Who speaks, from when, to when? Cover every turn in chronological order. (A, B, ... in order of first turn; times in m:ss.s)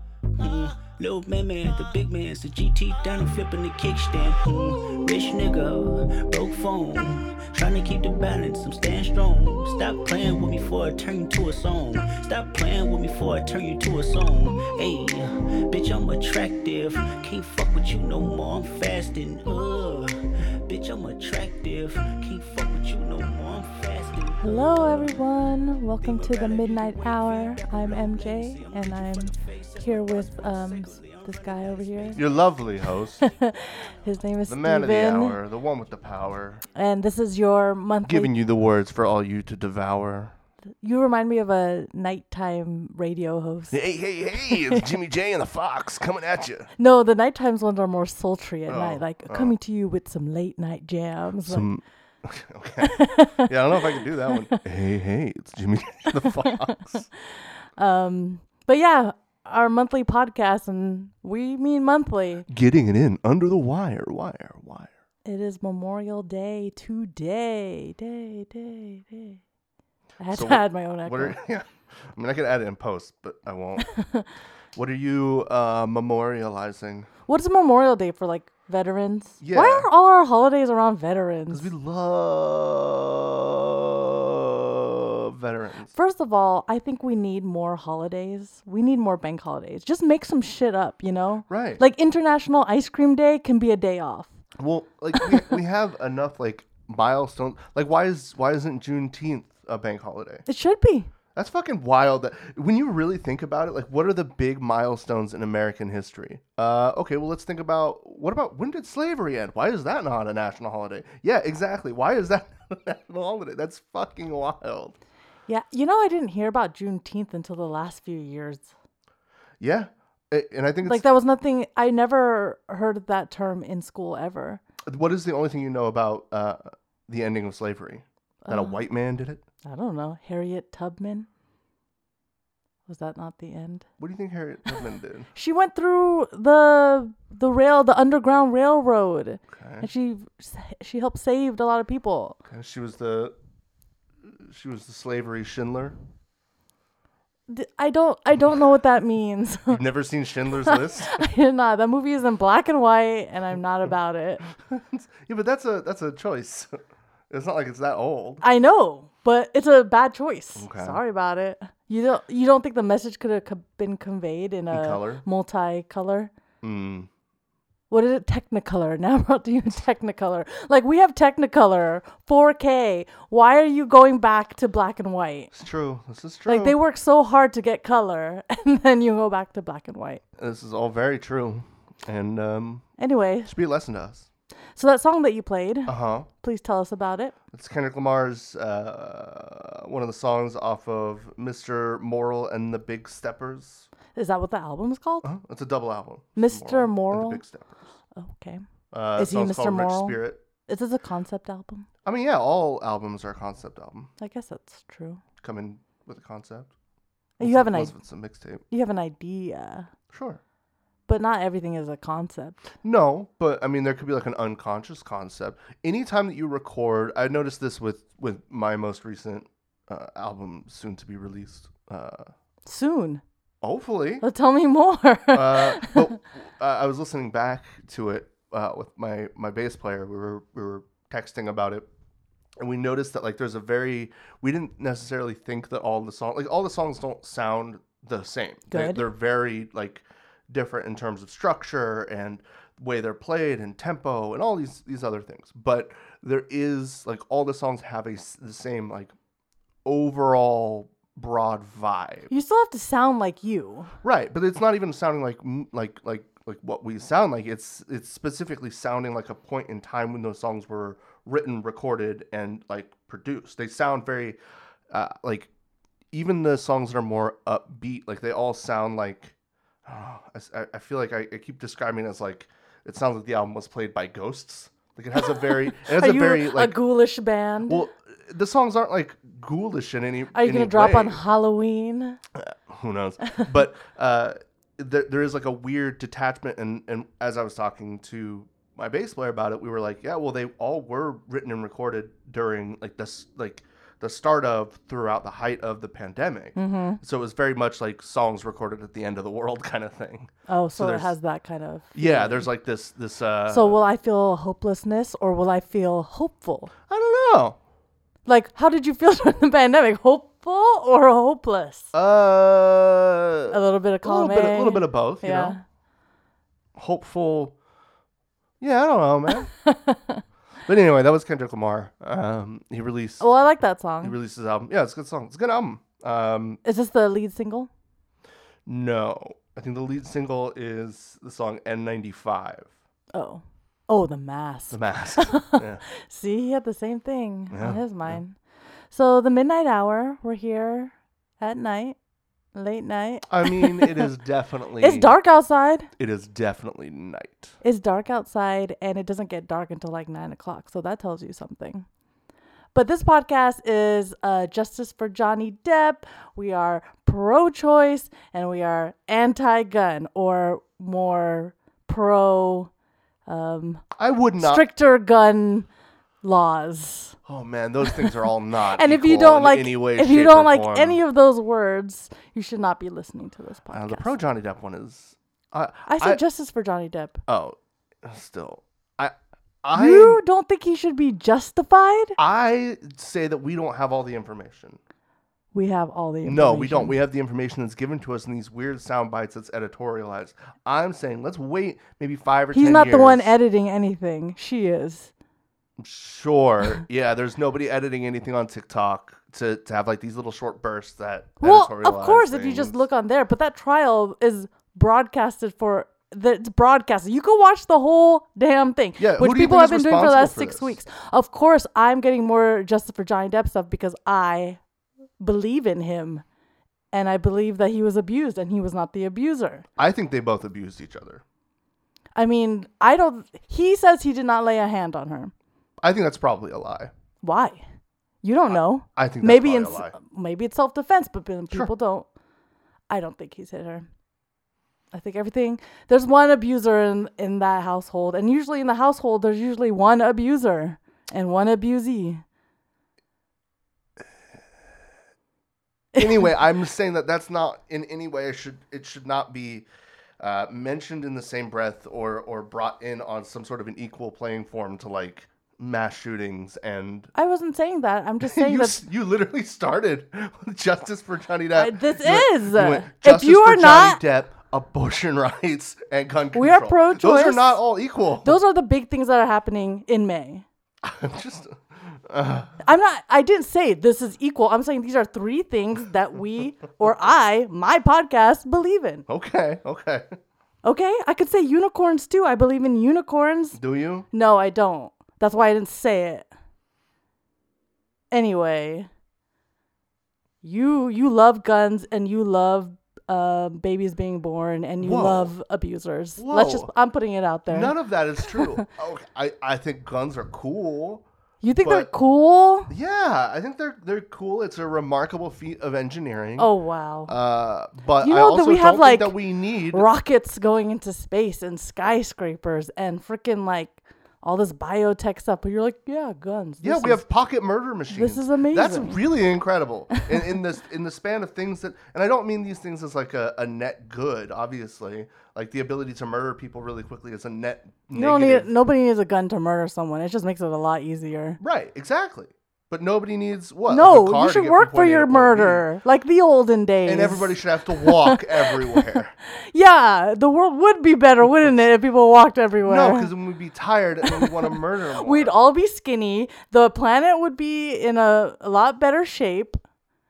0:00.4-0:25.1 A
0:24.4-0:32.2 B
0:26.0-0:32.3 A
0:32.1-0:33.2 C
0:33.2-0:35.4 B
0:34.4-0:36.6 C
0:36.7-0:38.3 B
0:38.0-0:40.3 C
0:40.8-0:43.8 B
0:43.7-0:46.7 C
0:44.5-0:44.8 B
0:46.8-0:51.6 B
0:48.7-0:49.5 C
0:51.4-0:57.1 C
0:52.8-0:53.5 B
0:54.3-0:54.6 B
0:56.2-0:56.6 B
0:57.8-1:02.4 B
1:02.5-1:04.9 C
1:05.2-1:09.4 B
1:10.2-1:11.4 B
1:10.3-1:13.9 C
1:13.9-1:14.3 B
1:14.7-1:17.1 C
1:17.3-1:21.7 B
1:19.4-1:19.9 C
1:21.5-1:25.9 C
1:25.9-1:34.3 B
1:31.5-1:31.8 C
1:34.6-1:40.4 C
1:40.5-1:41.1 B
1:41.3-1:55.0 C
1:55.5-1:58.7 B
1:59.6-2:01.0 C
2:00.8-2:04.6 B
2:04.8-2:09.4 C
2:08.4-2:08.8 B
2:09.6-2:11.3 B
2:12.9-2:13.8 B
2:14.0-2:15.3 C
2:15.3-2:22.4 B
2:19.5-2:19.9 C
2:22.4-2:23.3 C
2:24.4-2:26.0 C
2:27.5-2:29.8 B
2:29.7-2:31.2 C
2:30.6-2:34.4 B
2:34.6-2:36.8 C
2:37.3-2:38.4 C
2:38.4-2:46.3 B
2:40.6-2:41.0 C
2:44.7-2:45.2 C
2:46.6-2:47.1 C
2:47.9-2:55.5 B
2:55.5-2:56.8 C
2:56.5-3:00.2 B
3:00.4-3:02.8 C
3:03.0-3:03.5 B
3:03.4-3:04.3 C
3:04.8-3:07.3 B
3:05.9-3:06.3 C
3:07.5-3:13.9 C
3:14.1-3:15.3 B
3:15.2-3:17.9 C
3:16.4-3:17.4 B
3:18.2-3:18.6 B
3:18.9-3:20.4 C
3:19.2-3:21.9 B
3:22.0-3:24.1 C
3:24.2-3:25.2 B
3:25.4-3:26.7 C
3:27.4-3:27.9 B
3:27.4-3:28.6 C
3:28.7-3:29.9 B
3:30.1-3:30.4 C
3:31.1-3:32.6 B
3:32.8-3:42.3 C
3:42.6-3:43.2 B
3:43.6-3:44.2 C
3:44.2-3:46.1 B
3:45.3-3:51.9 C
3:52.6-4:09.1 C
3:58.7-3:59.0 B
4:09.8-4:12.3 C
4:12.3-4:13.9 B
4:14.0-4:24.4 C
4:24.9-4:25.5 C
4:26.1-4:29.3 C
4:29.8-4:36.8 C
4:35.2-4:37.8 B
4:37.7-4:41.2 C
4:40.3-4:42.2 B
4:42.3-5:01.1 C
4:56.6-4:57.0 B
5:00.5-5:02.5 B
5:01.9-5:03.8 C
5:03.5-5:06.7 B
5:06.9-5:07.6 C
5:08.2-5:11.9 B
5:11.9-5:15.6 C
5:13.5-5:15.6 B
5:16.8-5:17.5 C
5:18.6-5:19.5 C
5:19.3-5:20.2 B
5:20.6-5:23.2 C
5:23.2-5:24.2 B
5:24.0-5:26.6 C
5:26.6-5:27.7 B
5:28.6-5:32.7 C
5:33.1-5:38.4 B
5:34.7-5:35.8 C
5:37.5-5:38.2 C
5:38.9-5:42.0 B
5:42.5-5:44.0 B
5:43.3-5:45.1 C
5:44.8-5:45.9 B
5:46.0-5:47.5 C
5:47.6-5:51.8 B
5:52.7-6:02.7 B
6:03.2-6:03.8 B
6:04.0-6:04.6 C
6:04.4-6:05.7 B
6:06.2-6:07.2 B
6:07.2-6:11.0 C
6:07.9-6:08.1 B
6:08.7-6:14.1 B
6:13.7-6:16.2 C
6:15.9-6:17.2 B
6:17.3-6:20.2 C
6:19.7-6:22.2 B
6:22.2-6:24.8 C
6:25.5-6:27.0 B
6:26.2-6:33.3 C
6:32.5-6:35.1 B
6:35.8-6:42.8 C
6:41.4-6:54.6 B
6:49.0-6:50.8 C
6:55.2-6:56.2 B
6:56.9-6:59.6 B
6:59.8-7:01.2 C
7:02.2-7:05.3 B
7:05.8-7:06.9 C
7:07.2-7:07.6 B
7:08.2-7:12.1 B
7:08.5-7:09.9 C
7:12.9-7:13.9 B
7:14.9-7:22.2 B
7:25.9-7:29.6 C
7:30.2-7:37.1 C
7:37.1-7:38.8 B
7:38.2-7:48.4 C
7:41.5-7:44.0 B
7:46.3-7:47.6 B
7:48.2-7:50.4 B
7:50.8-7:52.5 C
7:52.6-7:59.0 B
7:59.1-8:00.1 C
8:00.6-8:03.6 B
8:03.5-8:04.0 C
8:04.1-8:06.3 B
8:08.1-8:08.9 B
8:10.4-8:18.6 B
8:14.8-8:15.3 C
8:16.2-8:16.7 C
8:17.5-8:21.0 C
8:21.4-8:22.7 B
8:21.6-8:21.9 C
8:22.7-8:26.5 C
8:26.4-8:27.1 B
8:27.1-8:29.8 C
8:28.0-8:29.2 B
8:29.7-8:37.0 B
8:36.6-8:48.5 C
8:37.9-8:39.0 B
8:39.9-8:40.3 B
8:47.9-8:51.4 B
8:51.4-8:55.6 C
8:53.7-9:03.1 B
8:56.8-8:59.1 C
9:02.6-9:05.4 C
9:04.0-9:04.3 B
9:05.0-9:09.6 B